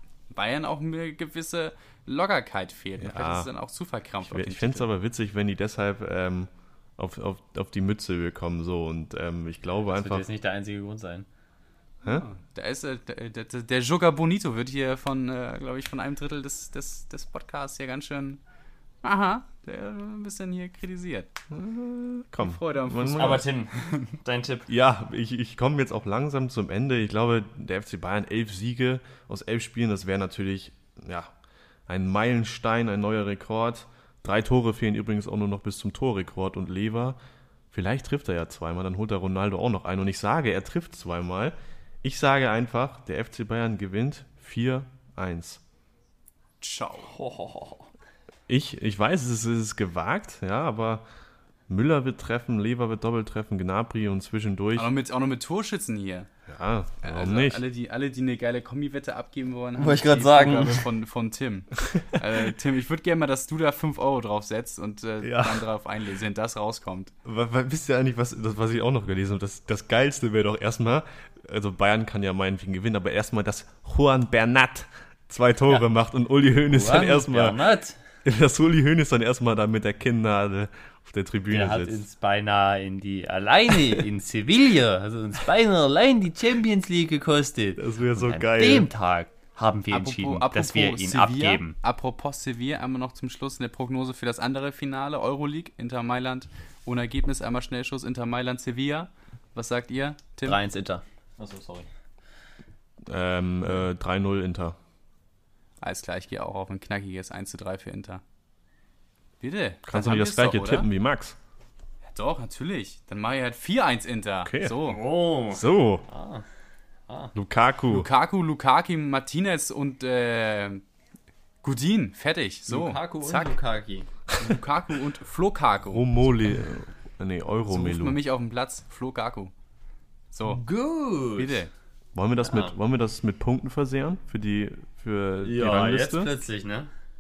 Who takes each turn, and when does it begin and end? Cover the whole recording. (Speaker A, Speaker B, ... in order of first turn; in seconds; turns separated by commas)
Speaker A: 0.3-4.9, Speaker B: 3.0-3.5, Speaker B: 4.2-10.2, Speaker C: 9.9-11.3, Speaker A: 12.0-18.4, Speaker A: 19.0-21.3, Speaker B: 21.5-23.4, Speaker A: 22.4-24.1, Speaker C: 23.2-24.7, Speaker B: 24.7-31.3, Speaker B: 31.9-37.2, Speaker B: 37.7-45.6, Speaker A: 46.6-47.1, Speaker C: 47.0-47.9, Speaker B: 48.5-51.0, Speaker B: 51.7-54.9, Speaker A: 54.8-56.3, Speaker B: 56.5-57.6, Speaker A: 57.0-67.1, Speaker C: 59.8-60.9, Speaker B: 65.2-65.7, Speaker B: 67.2-77.6, Speaker C: 76.7-78.0, Speaker B: 78.2-82.0, Speaker C: 81.5-91.8, Speaker B: 87.8-88.9, Speaker A: 89.9-100.6, Speaker C: 100.5-101.9, Speaker B: 103.1-104.8, Speaker A: 105.8-108.2, Speaker A: 109.4-110.9, Speaker B: 109.9-111.4, Speaker A: 112.0-115.0, Speaker B: 114.4-114.8, Speaker C: 114.8-116.5, Speaker B: 115.5-116.1, Speaker C: 117.1-117.3, Speaker B: 117.3-118.1, Speaker A: 117.9-120.8, Speaker A: 121.6-123.6, Speaker C: 122.7-124.1, Speaker A: 124.4-126.1, Speaker B: 125.9-128.2, Speaker A: 127.7-129.5, Speaker A: 130.3-130.6, Speaker C: 130.4-131.6, Speaker A: 131.4-131.7, Speaker B: 132.2-136.3, Speaker C: 132.4-132.8, Speaker C: 135.4-136.9